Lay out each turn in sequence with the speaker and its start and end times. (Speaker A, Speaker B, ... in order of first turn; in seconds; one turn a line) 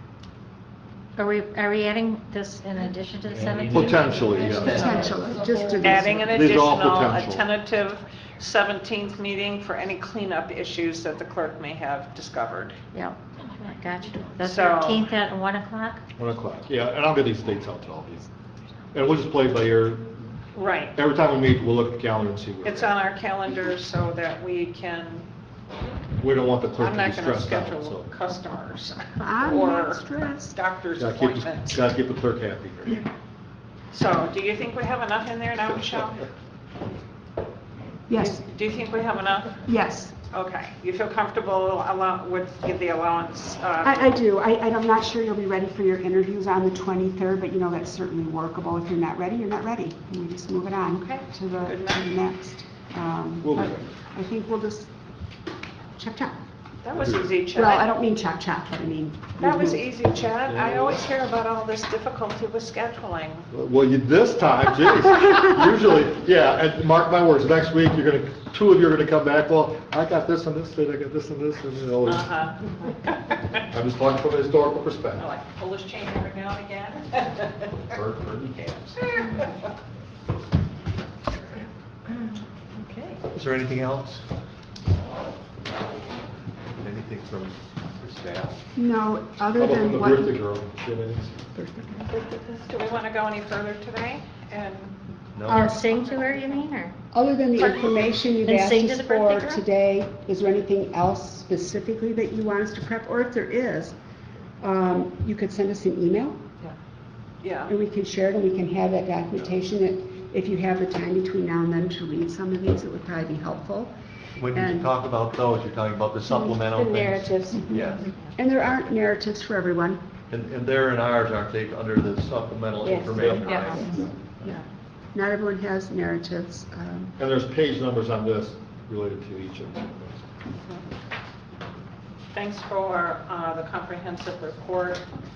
Speaker A: 1.2-5.1
Speaker B: 3.3-5.1
Speaker C: 4.5-6.3
Speaker D: 5.8-12.8
Speaker B: 6.2-7.5
Speaker A: 12.9-16.0
Speaker D: 14.4-15.1
Speaker B: 16.2-18.3
Speaker B: 18.9-20.2
Speaker D: 20.6-21.0
Speaker B: 21.0-22.9
Speaker D: 22.6-25.3
Speaker B: 26.2-28.1
Speaker D: 26.8-31.8
Speaker C: 29.2-30.6
Speaker B: 31.0-33.0
Speaker D: 33.9-36.3
Speaker C: 38.1-38.4
Speaker D: 38.1-39.6
Speaker C: 39.7-40.2
Speaker D: 40.3-44.1
Speaker C: 43.8-54.9
Speaker D: 51.0-52.1
Speaker B: 53.4-53.9
Speaker C: 56.0-56.4
Speaker D: 56.8-57.9
Speaker B: 57.0-57.3
Speaker C: 57.5-59.9
Speaker D: 59.4-63.5
Speaker B: 60.5-61.0
Speaker B: 63.5-72.3
Speaker D: 72.0-73.3
Speaker B: 73.7-75.2
Speaker D: 75.2-77.7
Speaker B: 77.9-79.0
Speaker D: 79.0-79.5
Speaker D: 82.8-83.1
Speaker E: 83.3-84.2
Speaker E: 86.8-88.6
Speaker C: 88.8-90.4
Speaker B: 89.6-91.4
Speaker C: 91.5-92.1
Speaker D: 92.1-95.0
Speaker E: 95.4-95.7
Speaker A: 95.5-96.9
Speaker D: 95.5-96.7
Speaker C: 97.1-104.0
Speaker D: 97.6-98.0
Speaker A: 98.5-99.6
Speaker C: 104.6-106.4
Speaker D: 107.4-107.7
Speaker C: 107.7-113.9
Speaker E: 114.4-118.1
Speaker C: 114.5-114.9
Speaker A: 116.8-118.3
Speaker C: 117.5-120.0
Speaker E: 120.3-124.5
Speaker A: 123.5-123.9
Speaker C: 125.1-127.1
Speaker B: 127.2-130.3
Speaker D: 132.3-135.0